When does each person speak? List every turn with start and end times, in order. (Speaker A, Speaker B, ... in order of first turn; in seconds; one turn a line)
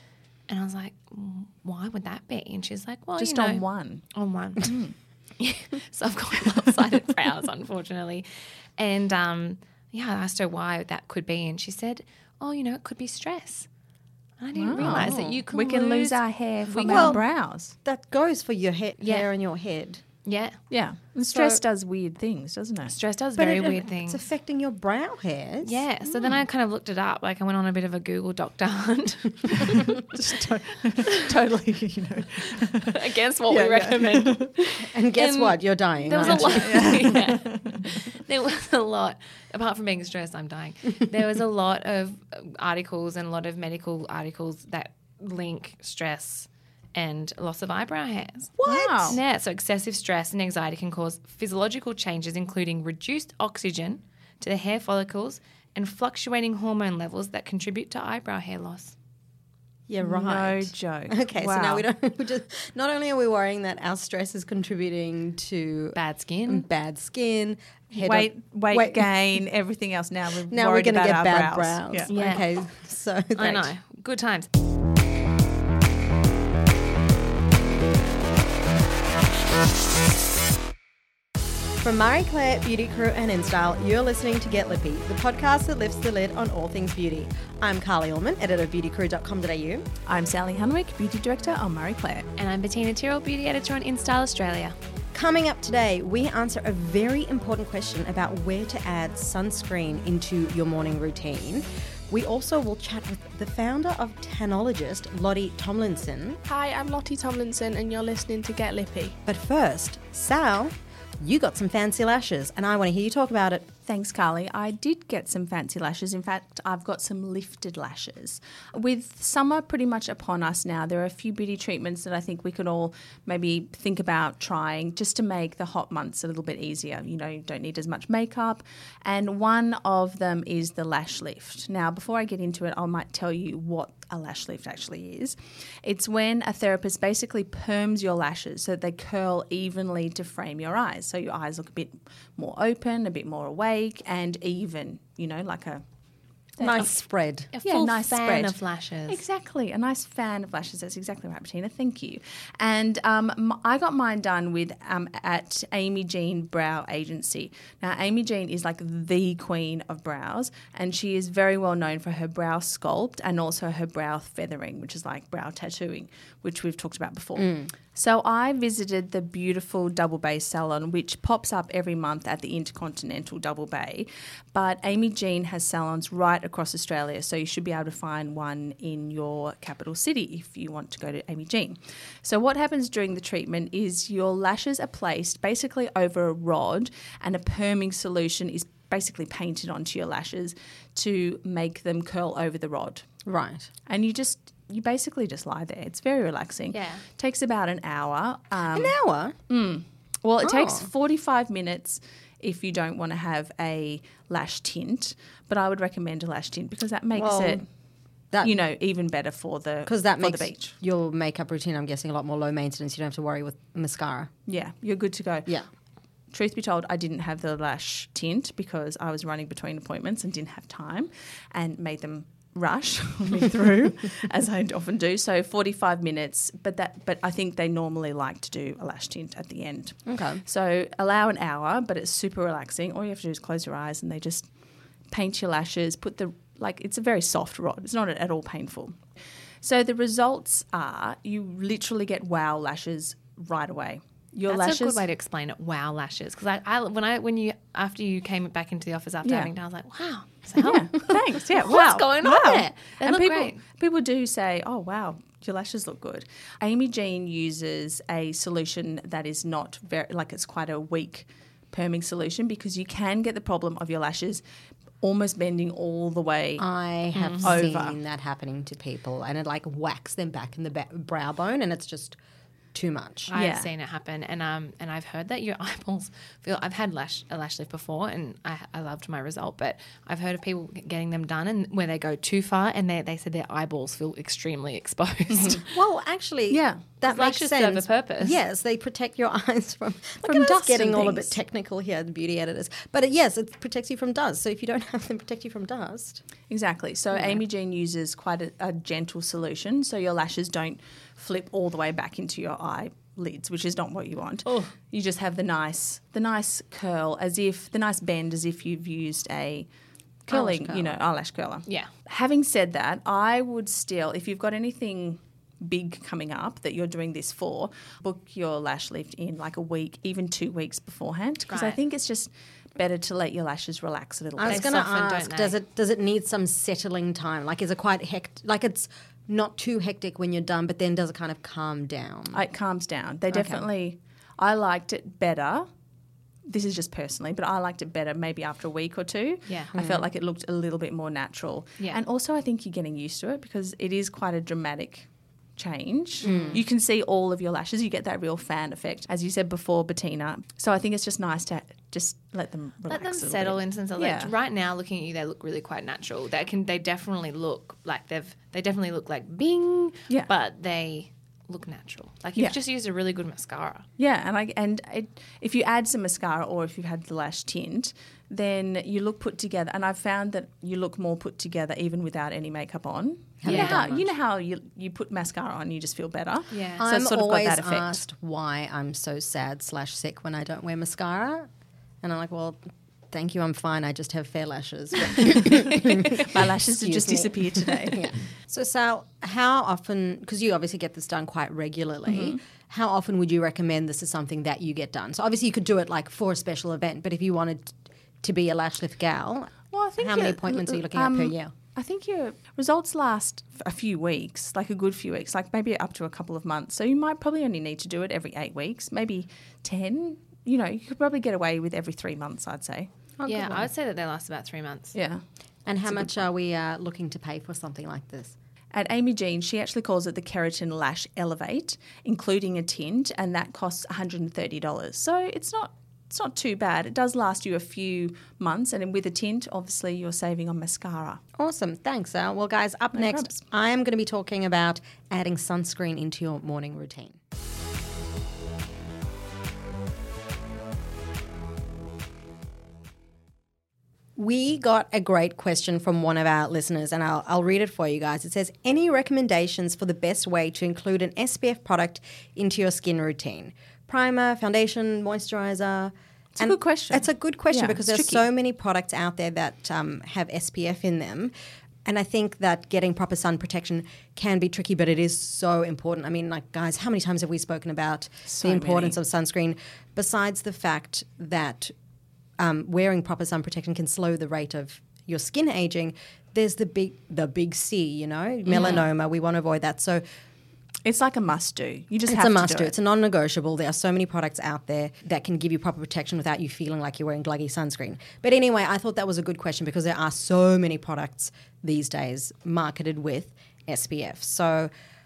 Speaker A: 0.5-3.6
Speaker B: 3.2-4.0
Speaker A: 4.1-4.7
Speaker B: 4.6-4.9
Speaker A: 5.4-8.3
Speaker A: 8.8-13.7
Speaker A: 14.4-17.2
Speaker B: 14.6-17.7
Speaker C: 14.8-15.4
Speaker C: 16.9-17.2
Speaker C: 17.9-20.0
Speaker A: 19.0-19.3
Speaker A: 20.2-20.6
Speaker B: 20.7-22.9
Speaker C: 21.3-21.6
Speaker A: 22.9-24.2
Speaker C: 23.4-25.9
Speaker A: 25.6-29.9
Speaker B: 29.5-34.5
Speaker A: 32.9-59.0
Speaker C: 34.8-37.0
Speaker B: 36.2-37.8
Speaker C: 48.6-49.1
Speaker B: 48.6-49.2
Speaker C: 59.9-69.1
Speaker B: 60.0-61.9
Speaker A: 66.0-66.7
Speaker B: 68.0-72.1
Speaker C: 70.5-73.7
Speaker A: 72.1-72.4
Speaker A: 73.3-74.5
Speaker C: 81.8-89.9
Speaker B: 90.1-92.3
Speaker A: 92.4-94.8
Speaker C: 95.1-106.4
Speaker D: 106.5-109.2
Speaker C: 109.3-113.7
Speaker B: 113.9-145.8
Speaker B: 146.6-146.9
Speaker C: 146.6-147.5
Speaker A: 147.5-149.2
Speaker B: 147.6-148.6
Speaker B: 149.1-193.1
Speaker C: 167.4-167.7
Speaker C: 193.3-193.7
Speaker B: 193.9-199.0
Speaker A: 196.7-197.0
Speaker C: 198.7-199.3
Speaker B: 199.5-207.7
Speaker C: 200.4-200.9
Speaker C: 207.2-207.6
Speaker B: 208.4-210.7
Speaker C: 209.9-214.3
Speaker B: 214.5-215.5
Speaker B: 216.3-234.5
Speaker C: 230.1-230.4
Speaker B: 235.1-239.0
Speaker B: 239.6-245.0
Speaker A: 244.5-253.6
Speaker B: 249.2-249.5
Speaker B: 250.6-264.4
Speaker B: 265.0-266.7
Speaker C: 266.6-272.2
Speaker A: 267.1-267.6
Speaker B: 267.4-268.0
Speaker C: 272.7-273.3
Speaker A: 273.3-285.6
Speaker B: 273.3-273.7
Speaker B: 285.3-285.6
Speaker C: 285.6-296.2
Speaker B: 286.5-286.8
Speaker A: 287.0-288.4
Speaker B: 290.2-291.4
Speaker B: 296.5-309.7
Speaker B: 310.3-324.7
Speaker C: 310.3-310.9
Speaker A: 321.5-321.8
Speaker C: 324.4-332.4
Speaker A: 324.5-325.6
Speaker B: 332.3-335.7
Speaker C: 333.3-333.7
Speaker B: 336.5-354.3
Speaker A: 339.5-339.7
Speaker C: 339.7-340.1
Speaker C: 346.2-346.6
Speaker A: 346.2-346.6
Speaker A: 352.9-363.9
Speaker B: 364.0-378.0
Speaker C: 373.4-374.0
Speaker A: 373.4-374.0
Speaker A: 376.5-376.8
Speaker C: 376.8-381.5
Speaker C: 382.0-382.6
Speaker C: 383.1-401.5
Speaker B: 385.2-388.1
Speaker B: 392.1-392.4
Speaker B: 399.7-412.9
Speaker C: 413.2-413.7
Speaker A: 413.3-414.9
Speaker B: 414.9-415.2
Speaker C: 415.7-418.4
Speaker B: 415.9-416.1
Speaker B: 418.7-431.2
Speaker C: 431.4-437.2
Speaker B: 432.9-433.3
Speaker C: 444.2-461.3
Speaker B: 456.4-458.3
Speaker C: 461.9-471.7
Speaker B: 468.3-469.0
Speaker C: 472.4-480.0
Speaker A: 478.5-478.9
Speaker B: 480.9-482.8
Speaker C: 482.1-494.7